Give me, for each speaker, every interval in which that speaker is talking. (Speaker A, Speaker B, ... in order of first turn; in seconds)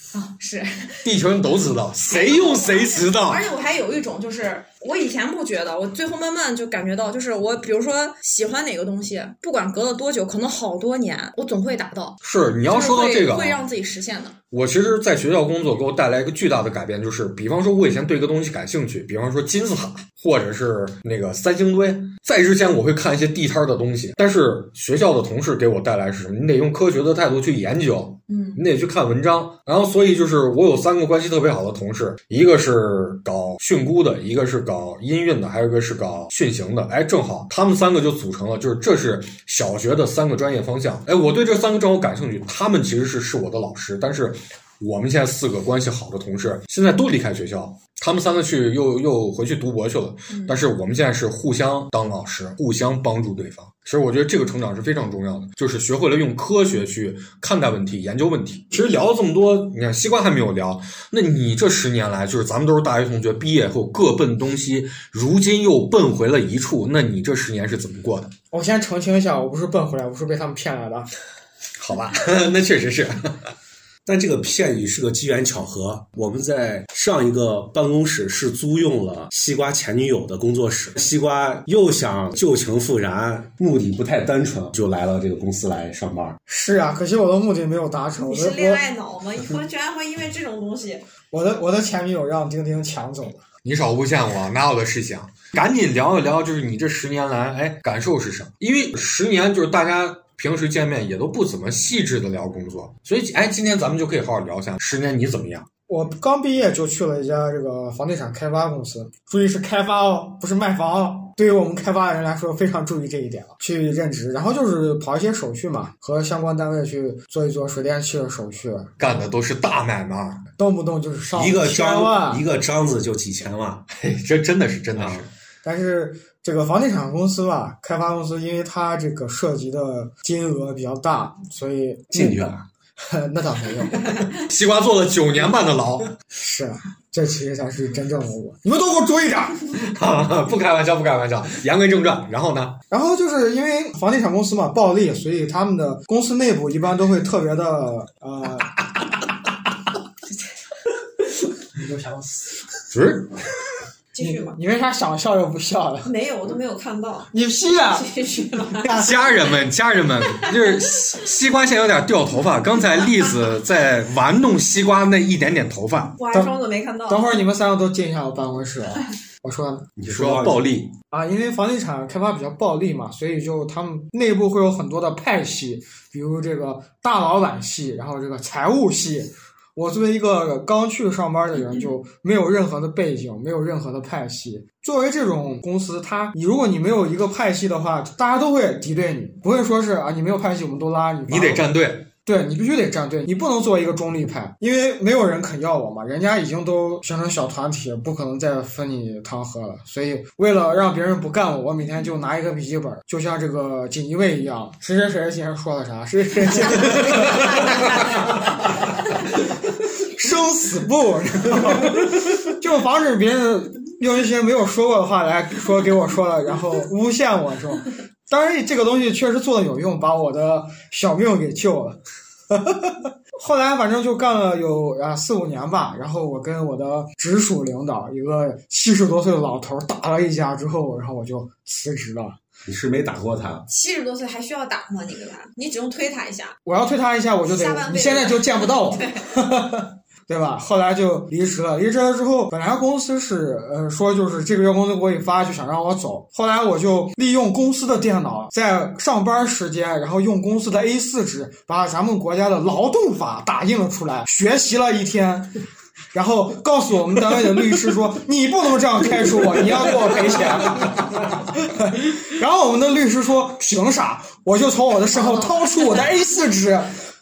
Speaker A: 0.1-1.0, 2.1-14.4, 28.3-28.6, 50.3-50.6, 88.2-91.0, 154.1-154.6, 156.0-157.3, 157.9-159.0, 166.2-167.4, 207.0-208.1, 233.7-236.6, 237.5-239.3
Speaker B: 1.0-3.5, 12.2-13.6, 14.5-68.3, 71.8-73.5, 93.6-105.7, 119.0-120.5, 123.9-125.3, 134.4-136.1, 139.8-142.8, 152.9-153.3, 159.0-166.1, 170.0-170.9, 191.3-192.1
Speaker C: 68.5-71.1, 86.5-88.8, 91.3-93.4, 105.9-118.9, 120.6-122.4, 125.6-132.4, 133.0-134.2, 136.3-139.7, 142.9-148.8, 151.7-152.6, 154.2-156.1, 157.3-158.1, 158.8-159.2, 167.1-169.9, 171.1-191.7, 192.3-209.1, 210.0-232.4, 236.7-255.6, 256.1-266.9
Speaker D: 74.0-86.4, 121.3-123.8, 125.0-125.3, 132.1-132.7, 170.0-170.6, 232.7-233.7